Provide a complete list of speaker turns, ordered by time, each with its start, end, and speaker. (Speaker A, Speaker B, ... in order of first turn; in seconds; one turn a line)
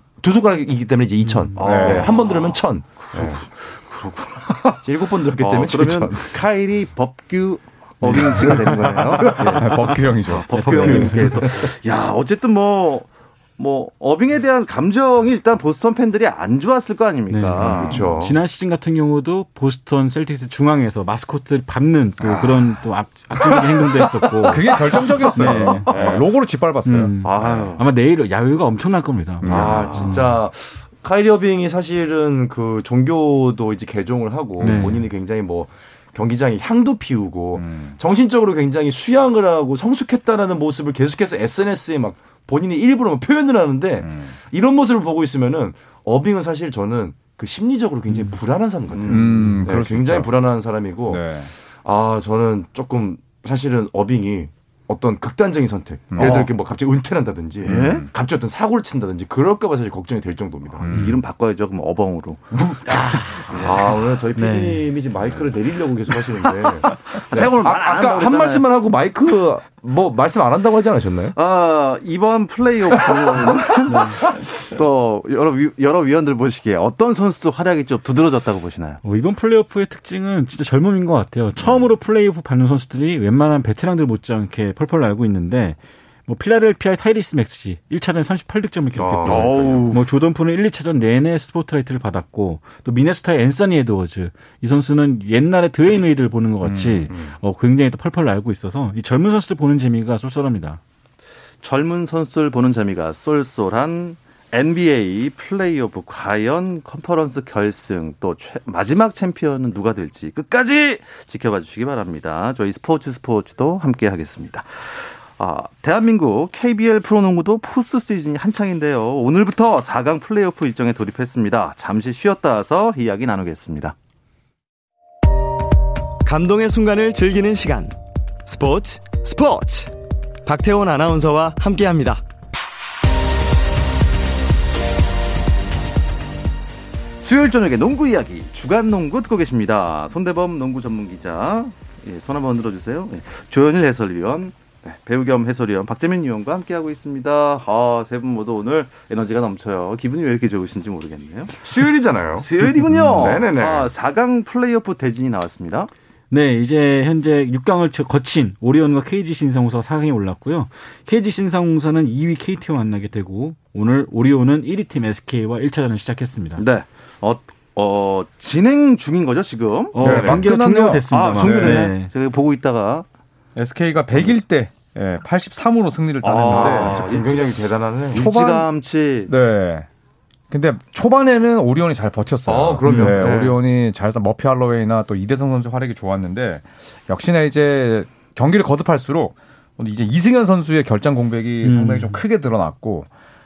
Speaker A: 0.2-3.4
Speaker B: 1.3-1.5
Speaker C: 1.6-2.6
Speaker D: 1.6-2.1
Speaker C: 3.1-18.0
Speaker A: 4.8-6.4
Speaker B: 8.0-8.8
Speaker A: 8.1-9.7
Speaker D: 9.2-11.2
Speaker B: 10.4-11.6
Speaker A: 10.9-11.6
Speaker B: 17.3-26.2
Speaker A: 17.6-18.4
Speaker A: 22.2-22.7
Speaker A: 23.4-26.0
Speaker D: 24.4-27.6
Speaker C: 25.9-26.2
Speaker B: 26.8-30.4
Speaker C: 27.2-27.8
Speaker D: 29.4-30.1
Speaker A: 29.4-51.2
Speaker D: 34.6-34.9
Speaker B: 34.6-35.1
Speaker D: 37.5-38.0
Speaker D: 44.0-44.3
Speaker B: 48.1-48.4
Speaker C: 48.9-49.3
Speaker D: 49.1-50.3
Speaker D: 51.1-51.5
Speaker A: 51.8-60.9
Speaker D: 56.1-56.5
Speaker C: 56.2-56.5
Speaker C: 57.6-58.1
Speaker D: 57.6-58.1
Speaker D: 60.8-61.1
Speaker C: 60.9-62.4
Speaker A: 62.5-62.8
Speaker B: 62.9-63.8
Speaker C: 63.4-63.9
Speaker A: 63.5-71.3
Speaker B: 64.3-64.9
Speaker C: 67.1-68.6
Speaker C: 71.3-79.0
Speaker A: 73.1-74.3
Speaker B: 73.9-74.2
Speaker B: 79.0-100.8
Speaker A: 88.9-89.8
Speaker C: 89.2-90.0
Speaker D: 96.6-97.1
Speaker A: 97.1-97.3
Speaker C: 101.6-114.8
Speaker C: 115.4-123.9
Speaker E: 126.2-127.9
Speaker E: 128.4-129.9
Speaker E: 130.4-132.2
Speaker C: 137.2-151.6
Speaker A: 151.6-153.9
Speaker C: 152.4-155.9
Speaker B: 156.3-166.6
Speaker C: 166.6-170.0
Speaker B: 169.9-172.1
Speaker A: 170.0-170.4
Speaker D: 170.0-171.9
Speaker C: 171.0-173.1
Speaker D: 173.6-177.2
Speaker C: 176.2-179.3
Speaker A: 176.5-178.3
Speaker D: 178.1-178.7
Speaker D: 179.3-179.9
Speaker D: 180.5-193.1
Speaker A: 182.5-183.6
Speaker B: 182.8-183.4
Speaker B: 191.6-192.2